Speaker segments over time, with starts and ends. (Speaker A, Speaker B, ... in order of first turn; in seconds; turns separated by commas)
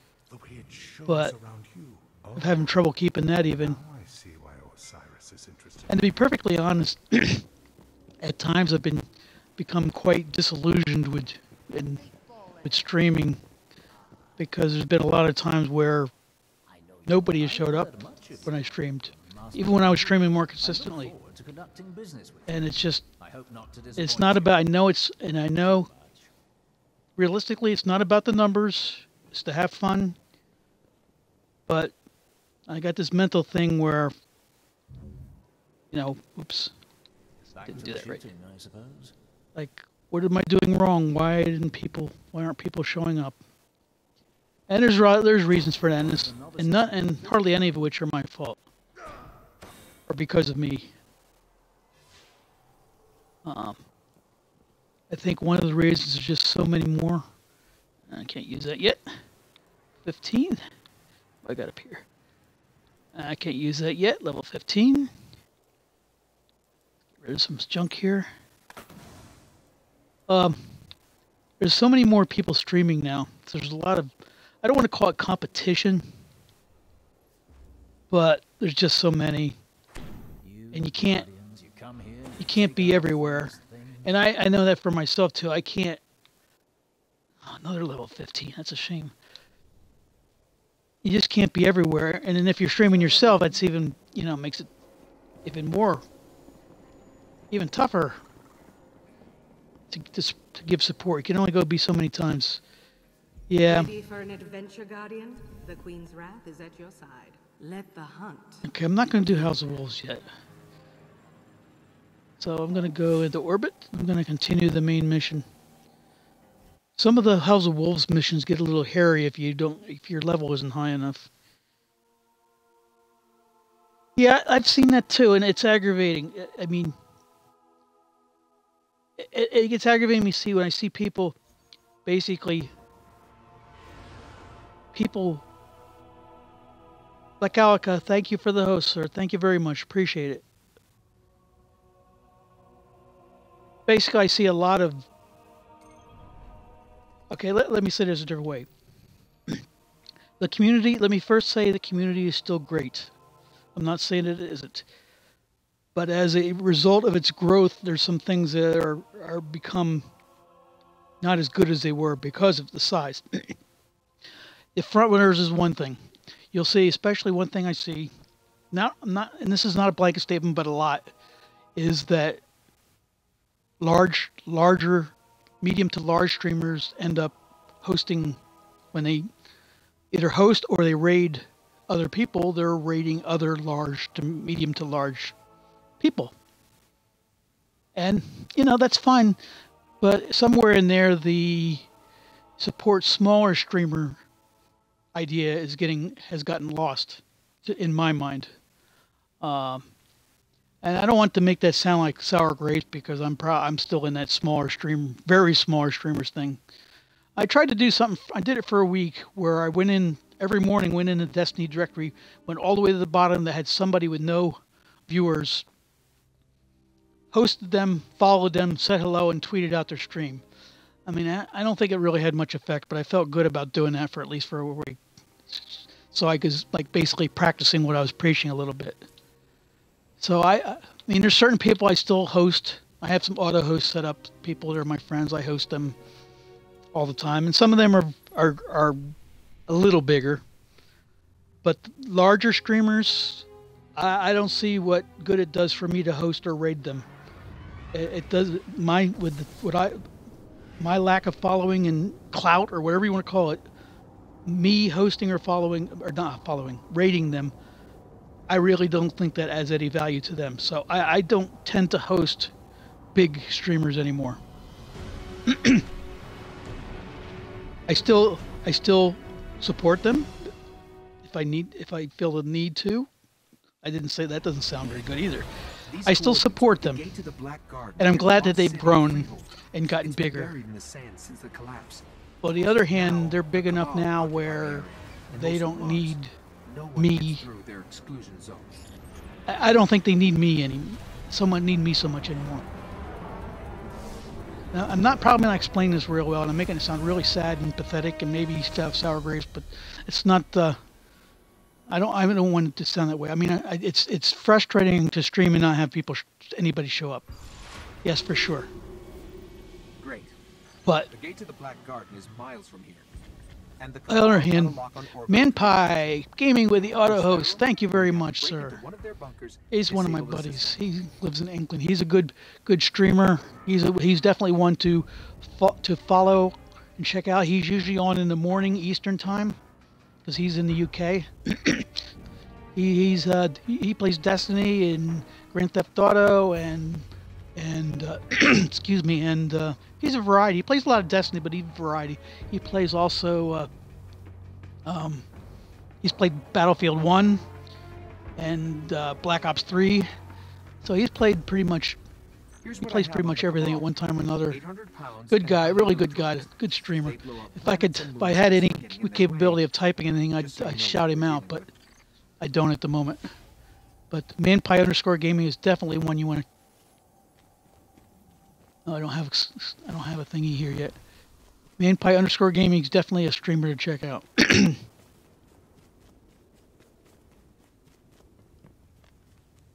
Speaker A: 0.3-2.8, Speaker B: 1.1-1.4, Speaker B: 2.4-3.8, Speaker A: 3.5-6.1, Speaker B: 5.9-7.5, Speaker B: 8.2-12.1, Speaker C: 12.0-12.8, Speaker B: 12.6-13.4, Speaker C: 14.2-14.4, Speaker B: 14.4-16.1, Speaker C: 16.7-24.8, Speaker B: 17.1-21.1, Speaker B: 22.5-23.1, Speaker B: 24.0-25.9, Speaker C: 25.6-26.3, Speaker B: 27.2-30.2, Speaker B: 31.7-31.9, Speaker B: 32.7-34.1, Speaker B: 35.9-36.7, Speaker C: 37.5-39.1, Speaker B: 37.6-38.2, Speaker B: 39.6-43.4, Speaker B: 44.7-48.6, Speaker C: 45.7-47.7, Speaker B: 50.1-50.9, Speaker B: 53.5-53.8, Speaker B: 55.1-57.3, Speaker B: 58.1-59.2, Speaker B: 60.0-60.6, Speaker B: 61.4-62.0, Speaker B: 63.1-65.1, Speaker B: 67.2-68.3, Speaker B: 70.3-70.6, Speaker B: 71.6-76.1, Speaker B: 78.1-79.6, Speaker C: 80.4-84.2, Speaker B: 80.7-81.3, Speaker B: 82.4-86.0, Speaker B: 87.4-89.1, Speaker B: 91.0-94.7, Speaker D: 92.9-93.6, Speaker B: 95.5-96.0, Speaker B: 97.5-98.2, Speaker B: 99.9-102.6, Speaker B: 103.5-103.9, Speaker D: 103.6-108.7, Speaker B: 108.7-110.2, Speaker B: 112.4-115.5, Speaker B: 117.0-121.3, Speaker B: 124.2-127.0, Speaker B: 129.2-131.4, Speaker B: 132.1-132.7, Speaker B: 134.9-135.4, Speaker B: 137.4-140.4, Speaker B: 143.9-145.1, Speaker B: 147.3-148.7, Speaker B: 150.4-153.1, Speaker B: 153.8-154.9, Speaker B: 155.9-160.1, Speaker B: 161.2-163.6, Speaker B: 164.8-166.0, Speaker B: 166.5-168.1, Speaker B: 168.7-171.1, Speaker B: 171.8-172.4, Speaker B: 173.8-178.4, Speaker B: 178.9-179.3, Speaker B: 180.1-185.3, Speaker B: 186.0-186.3, Speaker B: 187.9-189.4, Speaker B: 190.0-191.9, Speaker B: 192.6-194.2, Speaker B: 195.2-198.5, Speaker B: 199.4-199.9, Speaker B: 200.8-206.6, Speaker B: 207.4-215.7, Speaker B: 217.3-220.4, Speaker B: 221.1-229.1, Speaker B: 230.2-236.0, Speaker B: 236.9-239.1, Speaker B: 239.7-240.4, Speaker B: 241.6-247.1, Speaker B: 247.9-250.1, Speaker B: 250.8-253.6, Speaker B: 254.4-257.5, Speaker B: 258.5-262.5, Speaker B: 263.1-264.4, Speaker B: 265.5-265.9, Speaker B: 267.9-270.5, Speaker B: 271.2-273.1, Speaker B: 273.8-275.5, Speaker E: 275.9-282.1, Speaker B: 276.1-277.1, Speaker B: 278.0-280.6, Speaker B: 282.4-286.3, Speaker E: 282.8-288.8, Speaker B: 287.0-287.5, Speaker B: 289.5-292.6, Speaker B: 294.7-300.8, Speaker B: 301.9-307.2, Speaker B: 308.0-308.7, Speaker E: 310.0-310.4, Speaker B: 310.9-311.1, Speaker E: 311.1-313.1, Speaker E: 313.8-315.9, Speaker B: 314.1-318.8, Speaker E: 316.8-320.8, Speaker B: 319.7-329.6, Speaker B: 330.2-331.9, Speaker B: 332.8-343.7, Speaker B: 344.9-345.3, Speaker B: 346.0-347.4, Speaker B: 348.4-350.1, Speaker B: 350.8-352.0, Speaker E: 352.6-359.7, Speaker B: 352.8-354.6, Speaker B: 355.3-361.7, Speaker E: 360.4-361.7, Speaker B: 362.4-363.3, Speaker B: 364.1-366.4, Speaker B: 368.9-371.0, Speaker B: 371.8-374.8